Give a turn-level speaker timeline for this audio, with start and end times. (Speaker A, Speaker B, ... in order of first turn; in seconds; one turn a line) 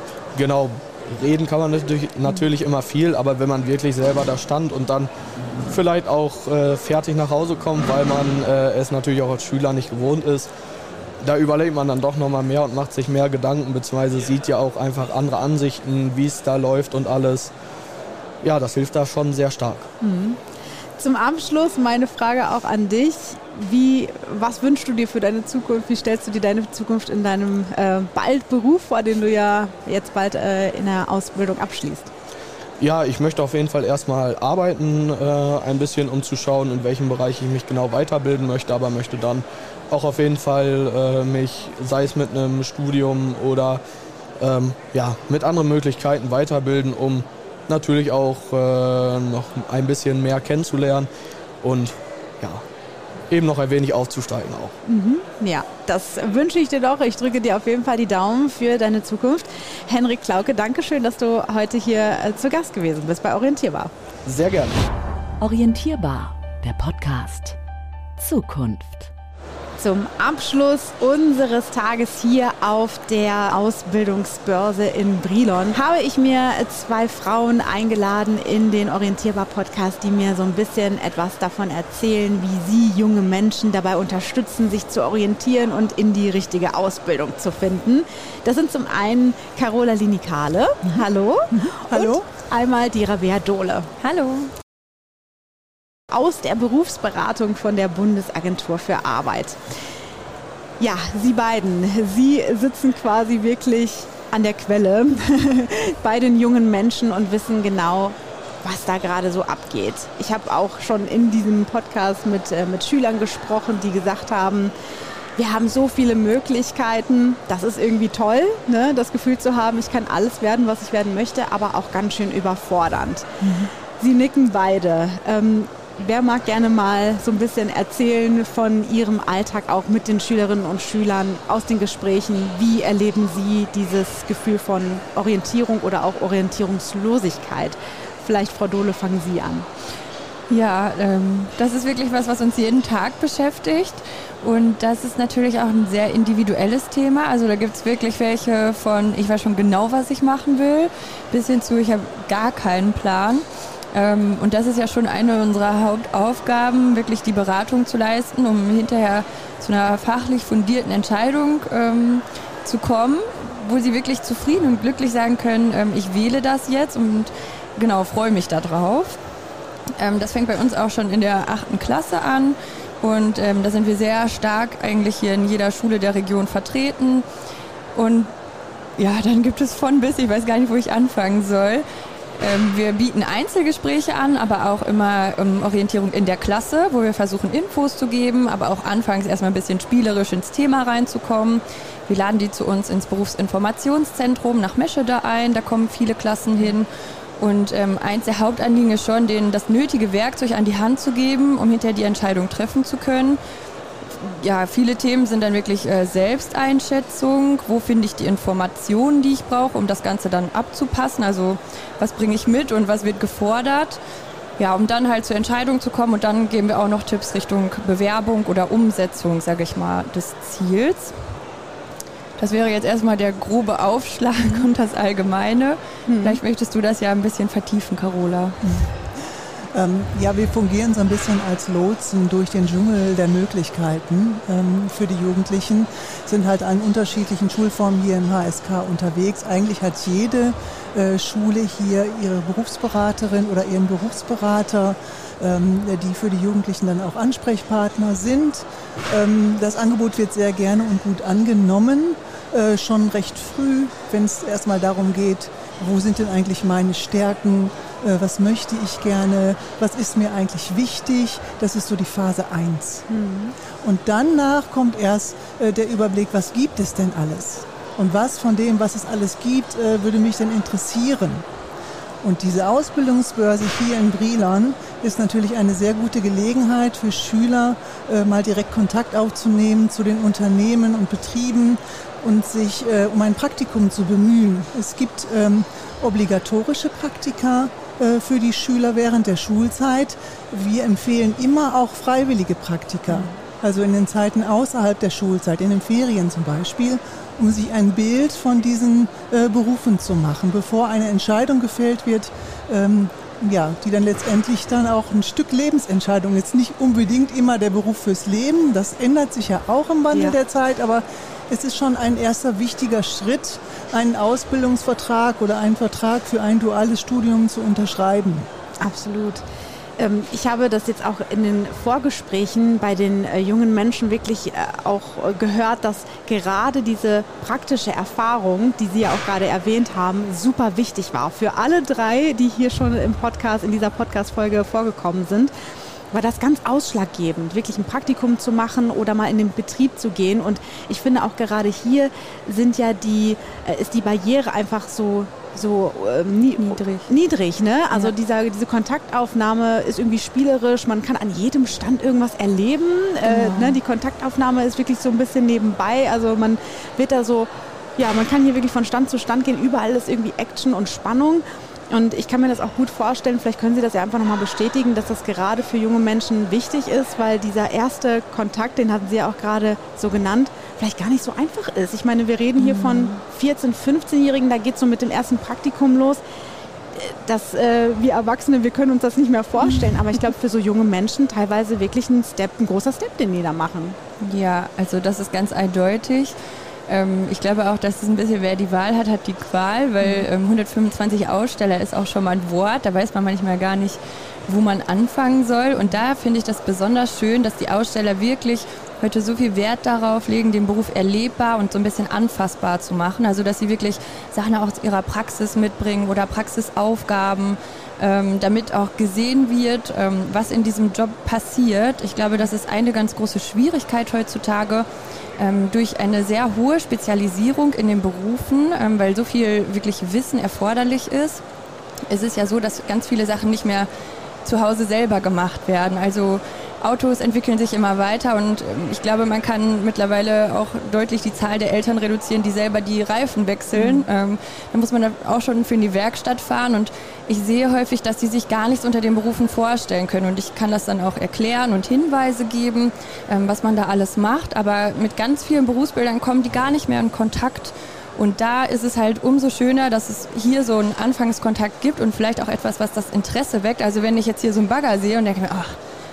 Speaker A: 0.3-5.1
Speaker A: 5.7-10.5
Speaker A: 11.2-17.5
Speaker A: 18.4-19.9
Speaker B: 20.0-20.4
Speaker B: 21.0-32.1
Speaker A: 32.8-43.8
Speaker A: 44.4-51.1
Speaker A: 51.6-52.6
Speaker A: 53.3-54.7
Speaker B: 54.9-63.9
Speaker A: 64.2-64.8
Speaker C: 65.4-67.6
Speaker C: 68.2-69.1
Speaker B: 69.8-93.9
Speaker D: 91.5-92.2
Speaker E: 94.0-94.5
Speaker B: 96.1-99.6
Speaker B: 100.8-114.7
Speaker B: 115.4-123.4
Speaker D: 123.4-123.7
Speaker B: 124.0-139.7
Speaker E: 140.5-169.2
Speaker E: 170.0-177.2
Speaker E: 177.9-178.3
Speaker E: 179.0-181.8
Speaker E: 182.4-196.9
Speaker E: 197.4-203.4
Speaker E: 204.1-214.0
Speaker E: 214.6-221.2
Speaker E: 222.4-228.7
Speaker B: 224.4-224.6
Speaker B: 226.1-226.4
Speaker D: 229.7-263.1
Speaker B: 263.1-263.5
Speaker D: 263.8-271.4
Speaker D: 272.2-318.5
Speaker B: 318.8-319.4
Speaker B: 320.0-335.5
Speaker B: 336.1-376.2
Speaker E: 346.6-347.1
Speaker E: 353.2-353.8
Speaker E: 372.6-373.1
Speaker B: 376.9-384.0
Speaker E: 384.2-386.4
Speaker E: 386.9-414.9
Speaker E: 415.4-421.4
Speaker E: 422.1-423.9
Speaker E: 424.4-455.8
Speaker B: 433.8-434.1